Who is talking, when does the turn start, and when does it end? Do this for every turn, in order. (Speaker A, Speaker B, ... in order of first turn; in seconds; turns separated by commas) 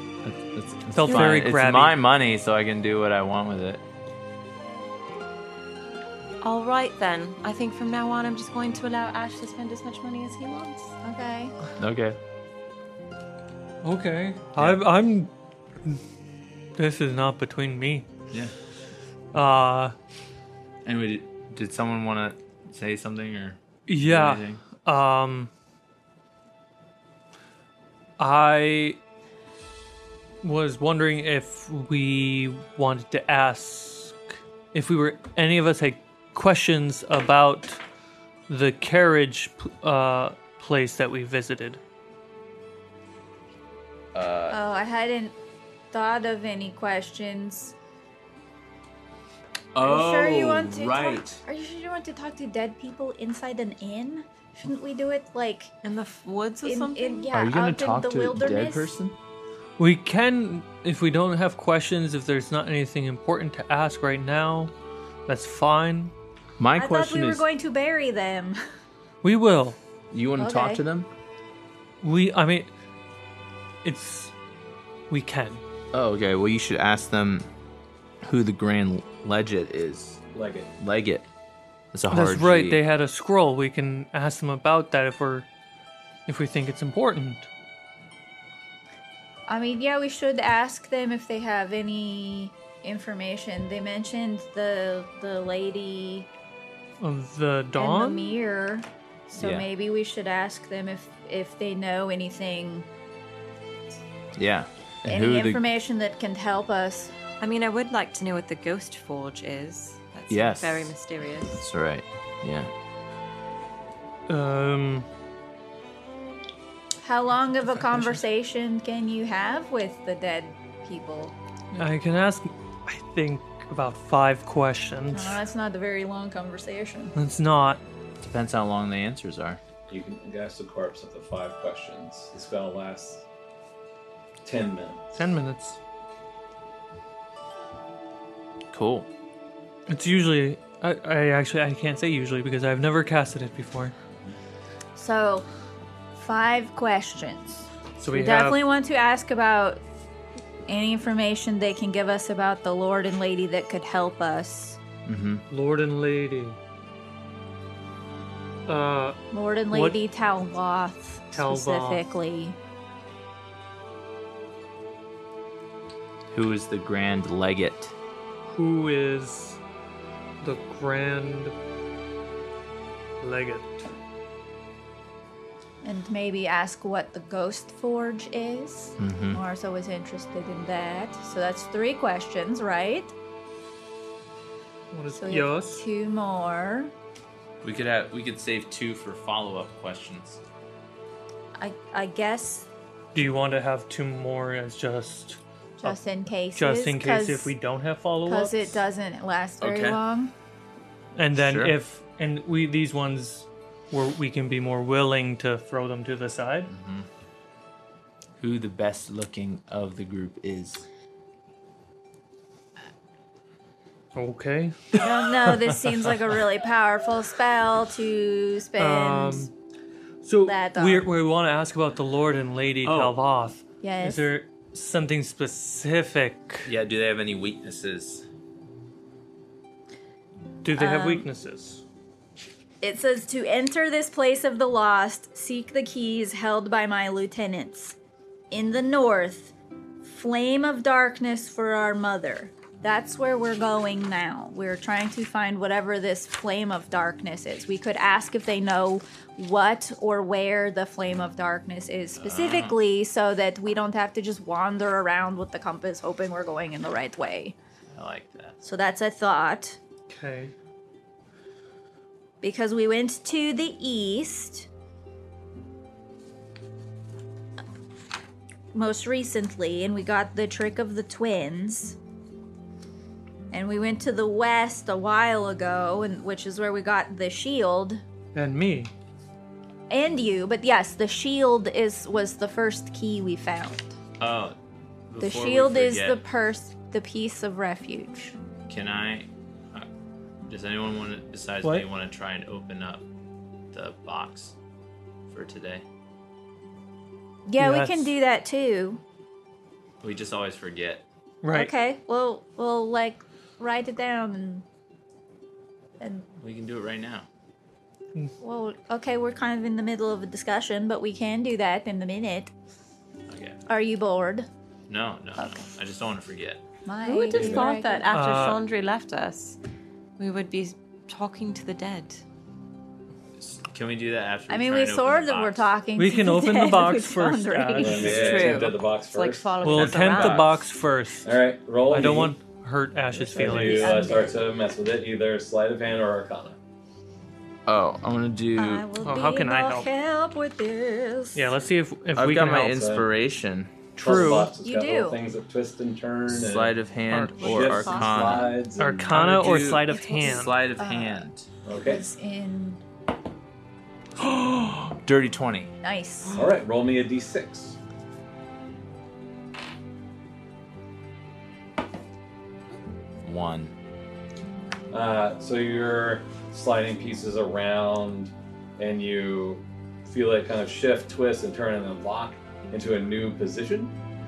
Speaker A: 0.2-3.8, Speaker B: 0.9-2.0, Speaker C: 1.0-1.4, Speaker C: 6.4-10.9, Speaker D: 11.0-11.6, Speaker A: 11.8-12.2, Speaker B: 13.8-15.3, Speaker B: 16.8-18.1, Speaker B: 19.3-19.9, Speaker A: 20.9-24.6, Speaker B: 23.9-25.5, Speaker B: 28.2-29.0, Speaker B: 30.4-34.2, Speaker B: 34.7-37.8, Speaker B: 38.5-41.8, Speaker A: 44.1-44.6, Speaker D: 44.5-45.4, Speaker D: 45.9-47.8, Speaker A: 49.8-51.4, Speaker D: 49.8-55.7, Speaker C: 55.8-57.3, Speaker D: 56.6-59.0, Speaker A: 57.3-59.2, Speaker B: 59.8-64.7, Speaker B: 65.3-66.1, Speaker A: 66.6-67.5, Speaker D: 66.8-68.6, Speaker B: 69.2-69.8, Speaker A: 70.1-71.1, Speaker D: 70.4-70.8, Speaker B: 72.0-72.7, Speaker B: 73.8-74.3, Speaker B: 75.1-75.6, Speaker A: 75.9-77.5, Speaker A: 78.2-80.2, Speaker E: 80.3-80.7, Speaker A: 80.8-81.3, Speaker A: 81.9-82.8, Speaker B: 82.1-85.5, Speaker B: 86.3-87.5, Speaker D: 89.5-96.3, Speaker B: 97.0-98.4, Speaker D: 97.8-102.9, Speaker A: 99.4-99.7, Speaker A: 104.3-105.6, Speaker D: 105.0-107.1, Speaker C: 107.4-111.6, Speaker A: 110.3-111.0, Speaker A: 111.5-112.7, Speaker B: 114.3-115.1, Speaker D: 117.0-121.8, Speaker B: 117.6-118.2, Speaker B: 121.8-125.4, Speaker D: 125.1-127.2, Speaker B: 127.2-127.8, Speaker A: 128.2-129.6, Speaker E: 129.9-133.2, Speaker E: 134.4-135.1, Speaker B: 135.1-135.8, Speaker A: 138.7-139.1, Speaker B: 139.9-143.9, Speaker D: 145.0-145.5, Speaker D: 146.2-149.8, Speaker B: 148.0-148.6, Speaker D: 150.7-154.8, Speaker A: 155.1-155.4, Speaker B: 155.5-156.6, Speaker B: 158.7-159.2, Speaker D: 159.3-162.6, Speaker B: 159.7-160.0, Speaker B: 161.3-162.1, Speaker A: 166.3-167.9, Speaker B: 168.5-169.6, Speaker B: 170.4-171.5, Speaker B: 173.2-173.8, Speaker D: 175.8-183.1, Speaker A: 179.0-179.4, Speaker B: 184.9-185.8, Speaker D: 185.1-186.9, Speaker A: 187.6-190.4, Speaker D: 191.6-192.7, Speaker B: 193.1-196.0, Speaker D: 195.8-197.5, Speaker B: 196.6-198.8, Speaker D: 198.3-200.3, Speaker A: 199.6-200.0, Speaker B: 201.2-206.7, Speaker A: 201.3-201.8, Speaker A: 206.7-207.1, Speaker A: 208.4-210.9, Speaker B: 214.2-216.4, Speaker D: 215.0-219.5, Speaker B: 218.8-219.5, Speaker B: 220.2-226.7, Speaker D: 220.4-221.1, Speaker A: 222.8-223.2, Speaker D: 223.8-224.3, Speaker A: 226.7-228.2, Speaker B: 230.6-231.8, Speaker D: 230.7-231.3, Speaker D: 232.8-238.0, Speaker D: 238.5-257.6, Speaker A: 252.2-252.8, Speaker A: 257.9-258.6, Speaker D: 258.6-259.8, Speaker B: 260.1-260.5, Speaker D: 262.4-264.7, Speaker D: 268.7-272.0, Speaker D: 273.5-278.0, Speaker B: 278.3-278.9, Speaker D: 279.9-284.0, Speaker A: 284.2-284.6, Speaker A: 285.1-286.2, Speaker D: 285.2-288.4, Speaker A: 288.7-289.9, Speaker A: 290.5-293.1, Speaker B: 291.6-291.9, Speaker A: 293.7-294.6, Speaker A: 295.3-295.9, Speaker D: 297.5-299.0, Speaker B: 297.6-298.1, Speaker A: 300.0-301.1, Speaker B: 301.4-301.7, Speaker D: 301.5-304.6, Speaker D: 306.0-306.3, Speaker A: 306.4-307.3, Speaker D: 308.4-312.5, Speaker A: 313.3-313.6, Speaker D: 313.7-314.5, Speaker A: 314.9-316.6, Speaker D: 315.4-315.7, Speaker D: 316.9-318.1, Speaker C: 317.0-319.6, Speaker E: 317.4-317.6, Speaker B: 318.1-318.6, Speaker C: 320.2-322.2, Speaker A: 323.4-325.7, Speaker D: 324.5-328.2, Speaker B: 326.0-328.4, Speaker E: 327.8-329.6, Speaker A: 327.9-328.7, Speaker C: 328.1-330.6, Speaker B: 329.6-331.3, Speaker A: 329.6-330.6, Speaker E: 331.2-332.4, Speaker B: 331.9-334.1, Speaker E: 333.1-336.6, Speaker D: 333.4-334.4, Speaker A: 337.7-338.9, Speaker D: 338.6-341.6, Speaker B: 339.0-339.9, Speaker B: 341.4-342.8, Speaker A: 342.1-343.8, Speaker E: 342.6-343.1, Speaker B: 343.9-344.6, Speaker E: 344.0-346.8, Speaker D: 344.6-345.2, Speaker A: 346.3-351.5, Speaker B: 347.1-347.9, Speaker C: 347.4-348.5, Speaker E: 347.4-349.1, Speaker B: 348.8-350.6, Speaker D: 349.9-352.8, Speaker E: 351.6-352.1, Speaker A: 354.2-355.7, Speaker D: 355.8-356.4, Speaker E: 356.4-357.8, Speaker A: 363.2-363.7, Speaker E: 364.9-373.9